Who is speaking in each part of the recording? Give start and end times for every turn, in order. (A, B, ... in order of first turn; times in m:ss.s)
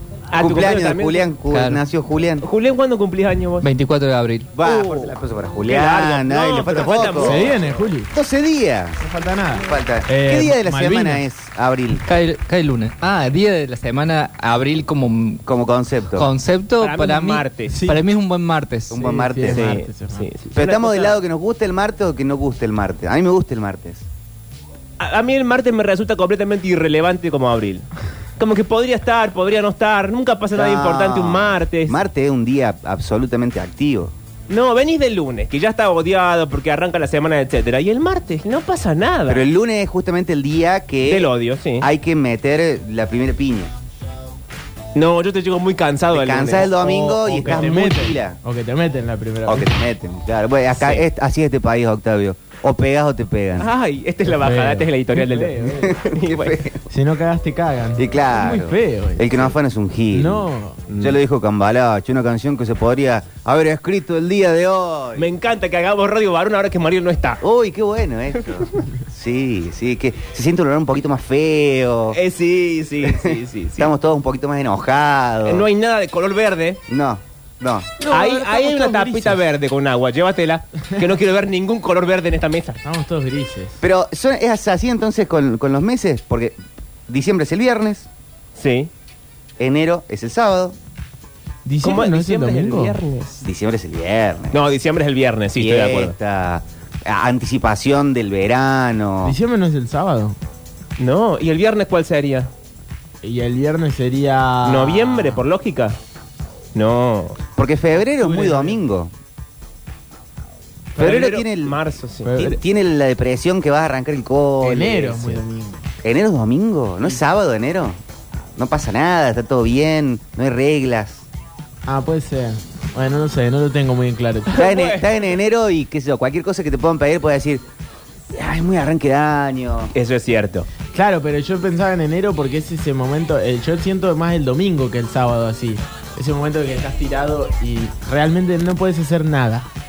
0:00.3-0:01.4 A
0:00.4-0:02.5 B
0:01.5-0:01.8 C
0:02.4-0:03.7 A
0:03.6-0:04.5 C
0:04.5-0:07.6 B
0:04.6-0:07.7 A
0:07.2-0:08.1 D
0:08.1-0:09.0 B
0:09.0-0:11.2 D
0:09.6-0:12.0 B
0:12.0-0:15.4 C
0:15.4-0:16.3 B
0:16.2-0:19.0 C
0:16.8-0:17.8 A
0:17.7-0:18.0 D
0:18.9-0:19.6 B
0:18.9-0:20.3 D
0:19.5-0:21.2 A
0:20.6-0:24.1 B
0:25.0-0:27.9 A
0:28.4-0:32.0 A
0:30.5-0:34.1 B
0:34.5-0:39.4 A
0:39.3-0:43.7 B
0:41.1-0:41.9 A
0:45.0-0:47.6 A
0:46.1-0:48.4 B
0:46.7-0:49.7 D
0:49.5-0:53.7 B
0:50.8-0:51.1 A
0:53.6-0:56.6 A
0:54.3-0:56.0 D
0:55.8-0:56.8 B
0:56.9-0:59.5 D
0:58.0-1:00.5 B
1:00.1-1:00.8 D
1:00.9-1:01.2 A
1:01.0-1:05.3 B
1:05.2-1:07.4 A
1:07.4-1:12.2 B
1:12.1-1:13.9 A
1:13.0-1:15.7 B
1:15.5-1:16.8 A
1:16.9-1:17.9 B
1:18.0-1:19.4 D
1:18.1-1:22.8 A
1:22.8-1:23.8 D
1:23.8-1:26.6 B
1:27.1-1:28.1 B
1:28.6-1:28.9 A
1:29.6-1:30.8 B
1:31.6-1:33.0 D
1:31.8-1:33.4 A
1:33.4-1:34.6 B
1:34.5-1:36.2 A
1:35.6-1:39.4 B
1:39.2-1:40.4 D
1:41.0-1:42.5 A
1:43.2-1:45.4 D
1:44.6-1:46.0 A
1:46.8-1:47.4 A
1:47.6-1:49.1 B
1:48.1-1:48.8 D
1:51.0-1:51.8 B
1:51.0-1:52.4 A
1:52.2-1:52.6 D
1:52.4-1:55.4 B
1:54.6-1:55.8 D
1:56.0-1:58.0 B
1:58.6-2:01.3 B
2:01.9-2:04.7 D
2:04.5-2:07.6 B
2:04.5-2:05.1 A
2:08.3-2:09.9 B
2:10.0-2:10.7 A
2:10.9-2:19.7 D